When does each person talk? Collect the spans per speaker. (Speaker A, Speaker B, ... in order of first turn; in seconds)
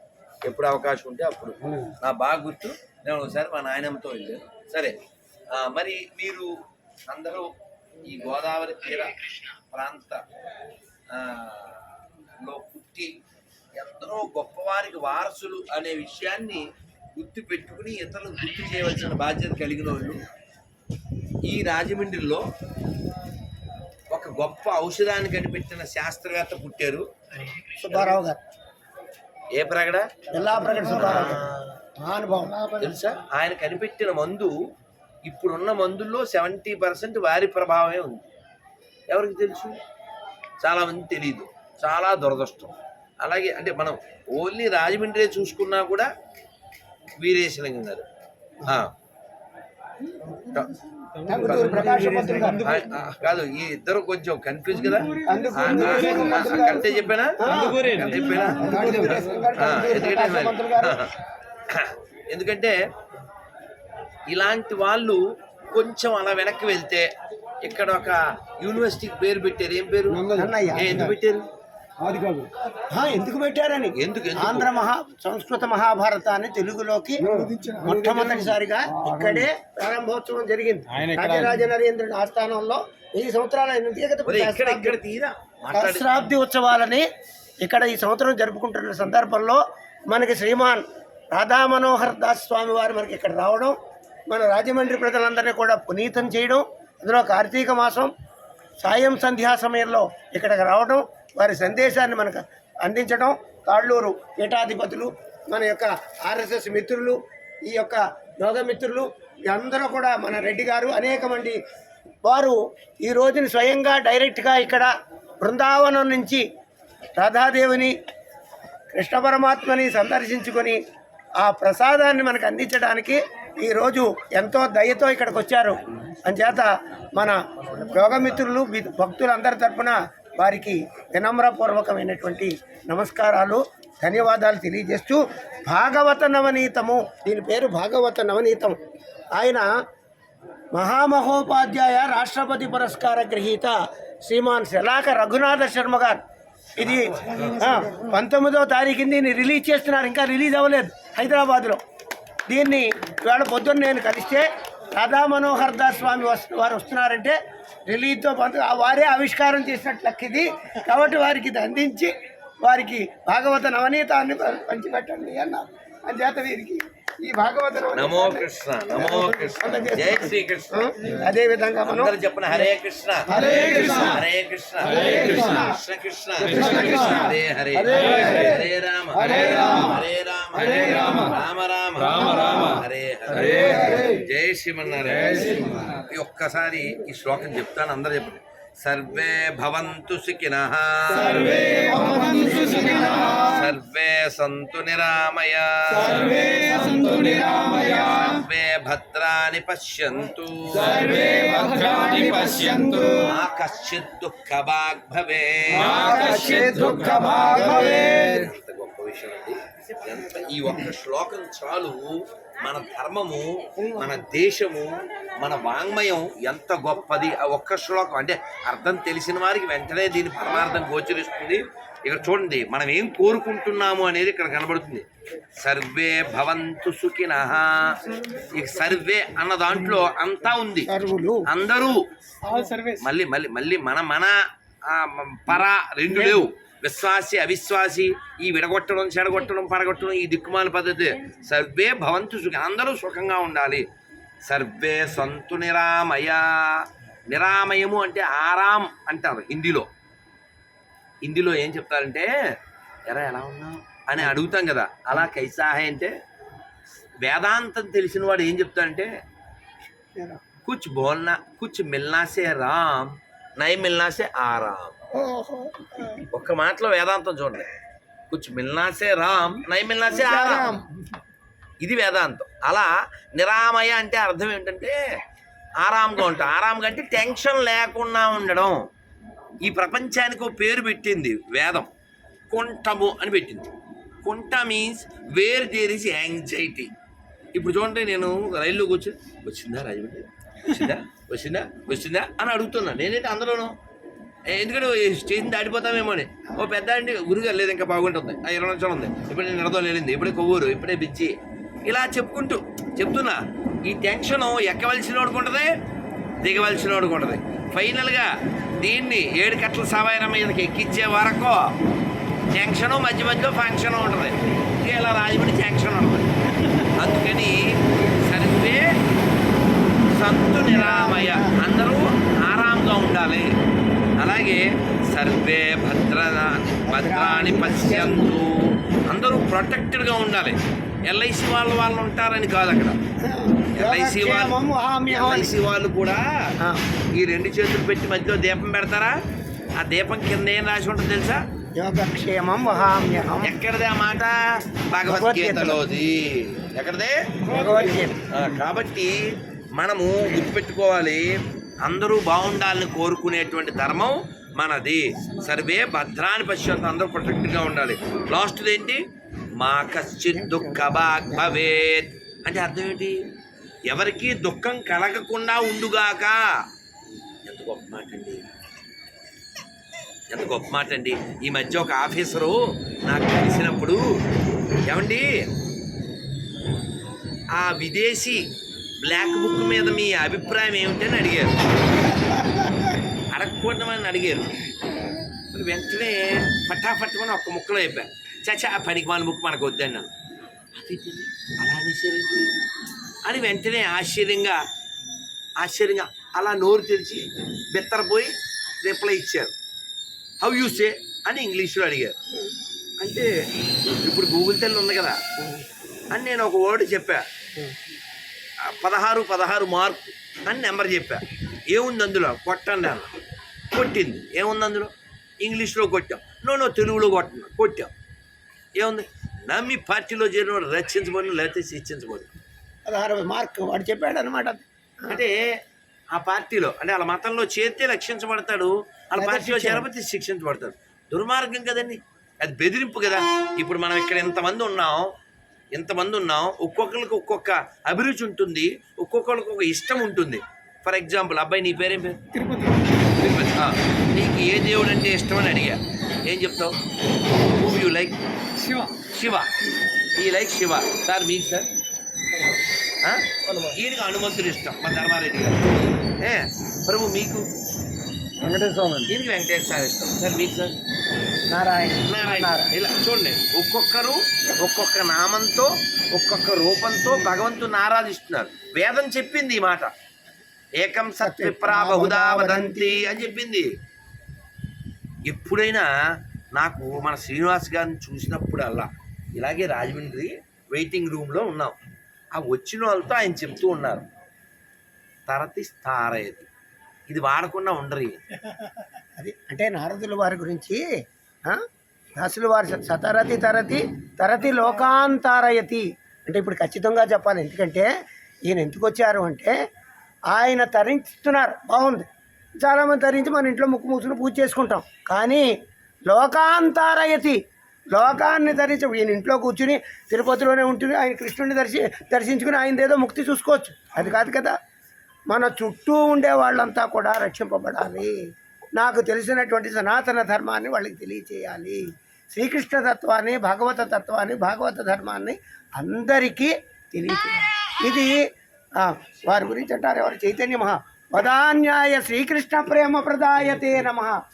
Speaker A: 0.5-4.9, 5.5-6.5, 7.1-9.1, 9.7-10.2, 11.1-13.2, 13.7-16.6, 17.1-20.2, 21.4-22.4, 24.1-27.1, 27.9-28.1, 29.5-30.1, 30.7-31.6, 32.8-34.5, 35.2-38.2, 39.1-39.8, 40.6-46.1, 47.2-48.0, 50.5-50.8, 51.4-51.8, 52.6-61.1, 61.7-62.8, 64.3-67.1, 67.6-71.5, 74.0-74.7, 84.2-86.1, 146.8-147.4, 167.9-170.8, 171.8-173.3, 173.9-192.2, 193.3-196.9, 197.5-225.0, 225.6-230.9, 231.5-232.0, 232.9-234.3, 234.9-243.8, 244.4-249.9, 251.2-252.3, 253.1-256.1, 257.2-259.1, 260.6-265.0, 266.3-267.7, 268.3-270.7, 271.8-275.0, 275.8-278.8, 279.6-281.9, 282.5-283.7, 284.2-286.9, 287.5-293.7, 294.5-301.3, 301.9-305.7, 306.4-311.7, 312.5-316.3, 316.9-318.8, 320.1-323.5, 324.2-328.5, 329.1-333.0, 333.8-334.6, 335.1-336.5, 337.1-339.1, 339.8-341.4, 343.4-347.2, 348.3-351.3, 351.8-359.0, 359.6-363.2, 363.9-366.4, 367.5-368.4, 370.3-374.0, 374.9-375.3, 377.6-378.5, 379.0-381.5, 383.3-384.6, 385.5-390.1, 390.8-392.6, 393.2-394.6, 395.6-399.5, 400.4-402.1, 403.0-403.3, 403.8-405.2, 406.1-407.2, 408.7-413.1, 413.7-417.9, 418.8-422.3, 425.1-425.4, 426.1-435.1, 435.7-442.2, 443.2-446.8, 447.5-448.2, 448.9-449.5, 450.1-451.7, 453.0-457.5, 459.1-460.7, 462.1-469.9, 470.8-473.7, 475.2-475.9, 476.5-481.8, 482.3-484.1, 485.3-486.5, 487.1-488.2
Speaker B: 27.8-28.4, 30.3-31.5, 32.0-32.9, 51.2-52.7, 55.2-57.8, 58.5-61.0, 70.3-71.0, 72.9-85.0, 85.7-87.0, 87.6-93.8, 94.3-98.1, 98.8-111.6, 112.2-114.9, 115.4-116.4, 117.2-117.9, 118.9-120.8, 121.4-138.8, 139.3-139.7, 140.7-146.2, 146.8-151.8, 152.5-157.4, 157.9-162.1, 162.6-172.1, 173.3-174.2, 174.9-175.8, 176.5-177.3, 183.7-184.0, 191.8-193.4, 196.5-197.8, 202.0-203.1, 205.9-207.3, 230.8-231.5, 236.2-236.4, 260.1-260.4, 265.1-266.2, 270.1-270.8, 320.7-321.5, 326.9-328.4, 333.2-335.5, 341.8-343.6, 345.1-345.8, 347.4-348.2, 360.3-361.5, 422.9-425.2, 429.1-429.9, 453.4-453.8, 461.5-462.7, 471.2-473.0, 489.2-490.8, 492.2-497.9, 498.5-499.5, 500.3-502.1, 502.6-505.5, 506.1-507.4, 507.9-514.5, 515.3-518.2, 518.8-528.2, 528.8-534.2
Speaker C: 51.2-52.5, 56.1-56.4, 57.8-59.3, 70.1-71.1, 72.0-72.5, 77.2-79.5, 80.9-81.5, 173.4-174.0, 177.9-178.3, 179.3-179.8, 183.4-183.9, 191.4-193.4, 196.1-198.1, 200.8-203.2, 205.8-208.2, 458.4-459.1